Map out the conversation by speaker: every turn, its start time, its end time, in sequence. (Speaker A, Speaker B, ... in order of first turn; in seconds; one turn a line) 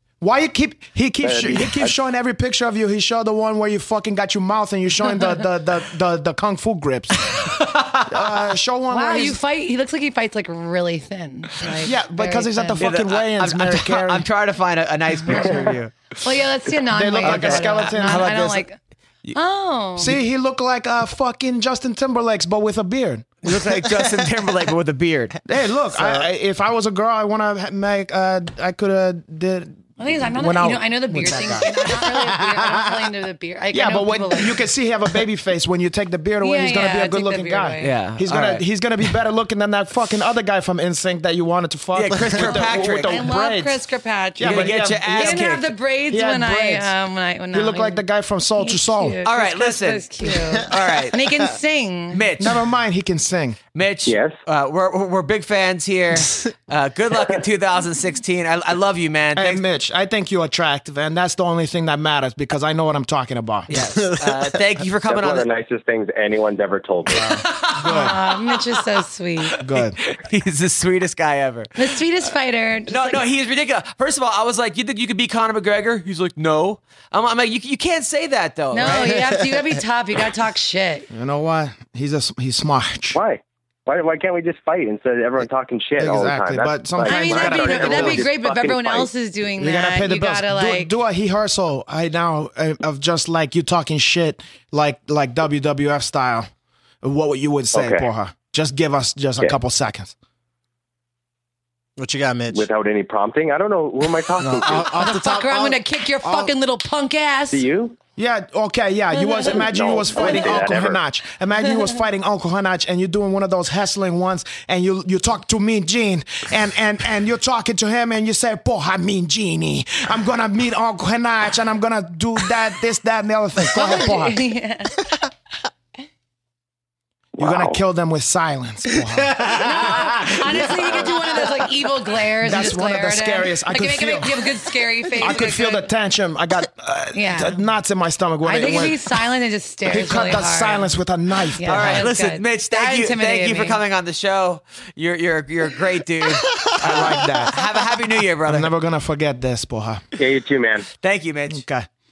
Speaker A: 0.2-7.5
Speaker B: 1.2-1.9
Speaker C: 7.4-8.2
Speaker A: 8.1-9.4
Speaker D: 8.9-12.9
Speaker A: 11.8-14.2
Speaker C: 12.8-16.0
Speaker D: 15.3-15.7
Speaker D: 16.2-18.8
Speaker A: 16.9-18.6
Speaker C: 17.2-18.6
Speaker D: 19.3-20.2
Speaker A: 20.0-23.3
Speaker C: 23.4-25.4
Speaker A: 25.5-32.0
Speaker C: 26.0-26.2
Speaker D: 30.0-34.6
Speaker A: 33.7-43.8
Speaker D: 36.4-38.0
Speaker C: 37.8-38.6
Speaker C: 42.0-43.2
Speaker D: 42.6-48.0
Speaker A: 44.4-45.4
Speaker C: 44.4-45.7
Speaker A: 46.1-46.9
Speaker A: 47.5-49.2
Speaker D: 48.6-52.3
Speaker C: 49.2-50.0
Speaker C: 50.7-51.2
Speaker C: 52.1-52.6
Speaker A: 52.4-53.6
Speaker C: 53.8-59.6
Speaker B: 54.1-54.4
Speaker A: 59.4-63.7
Speaker C: 63.7-65.5
Speaker E: 63.8-64.3
Speaker B: 65.0-67.4
Speaker A: 67.2-68.2
Speaker C: 67.3-68.8
Speaker D: 67.8-69.6
Speaker C: 69.4-71.9
Speaker A: 69.6-70.0
Speaker D: 71.8-73.2
Speaker C: 72.9-79.2
Speaker D: 78.7-81.1
Speaker A: 81.1-83.2
Speaker B: 83.1-89.1
Speaker A: 86.0-88.3
Speaker D: 87.0-90.9
Speaker A: 89.6-96.5
Speaker A: 97.0-100.1
Speaker B: 97.7-98.1
Speaker E: 102.0-102.7
Speaker B: 102.5-105.1
Speaker E: 104.4-106.5
Speaker D: 104.9-107.7
Speaker B: 107.5-108.0
Speaker A: 108.2-124.4
Speaker B: 109.4-111.0
Speaker D: 123.8-125.1
Speaker B: 127.4-127.8
Speaker A: 127.4-129.6
Speaker D: 129.5-135.9
Speaker B: 130.1-131.6
Speaker A: 132.4-134.6
Speaker A: 135.2-139.1
Speaker D: 137.1-137.6
Speaker D: 138.4-141.0
Speaker A: 139.9-142.1
Speaker D: 141.6-143.8
Speaker C: 141.7-148.7
Speaker A: 146.8-147.6
Speaker A: 148.4-150.0
Speaker B: 150.2-150.9
Speaker C: 151.0-151.7
Speaker A: 151.5-151.9